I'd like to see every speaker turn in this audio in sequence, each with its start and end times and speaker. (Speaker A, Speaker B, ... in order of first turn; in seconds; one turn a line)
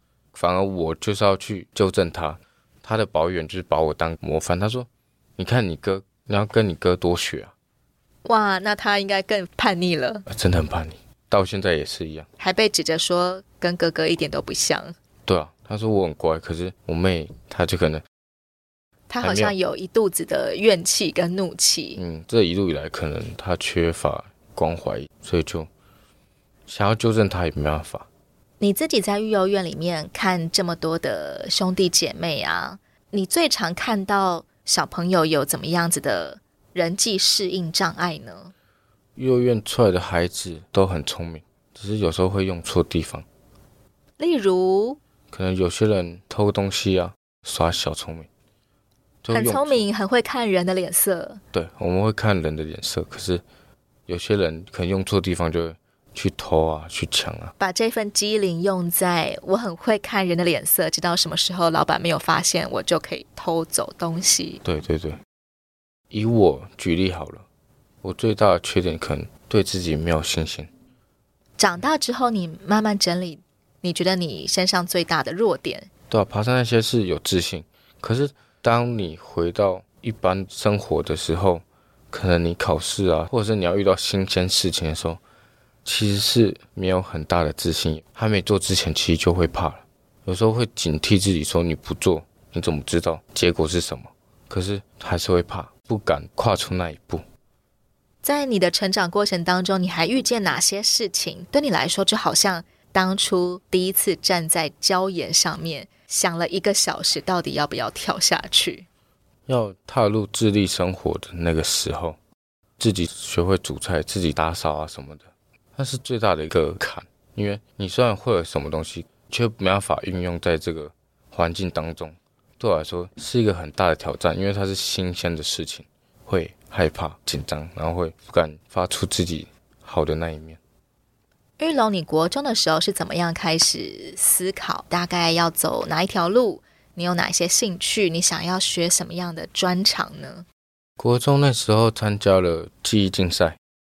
Speaker A: 0.3-7.5
Speaker B: 8.2-10.3
Speaker A: 10.3-12.3
Speaker B: 12.4-14.9
Speaker A: 15.3-18.1
Speaker B: 19.1-22.0
Speaker A: 19.2-19.6
Speaker A: 22.0-25.7
Speaker A: 26.7-28.1
Speaker B: 28.6-38.5
Speaker A: 39.2-43.3
Speaker B: 44.2-45.0
Speaker A: 45.3-48.3
Speaker A: 49.2-49.9
Speaker B: 49.3-51.4
Speaker A: 51.5-53.4
Speaker A: 54.1-57.5
Speaker B: 57.6-64.6
Speaker A: 64.6-65.2
Speaker A: 66.1-67.5
Speaker A: 68.0-70.7
Speaker B: 71.6-75.9
Speaker A: 76.1-85.2
Speaker A: 85.8-97.2
Speaker B: 98.2-108.9
Speaker A: 109.5-112.2
Speaker A: 112.8-130.6
Speaker B: 131.6-140.5
Speaker A: 141.0-143.6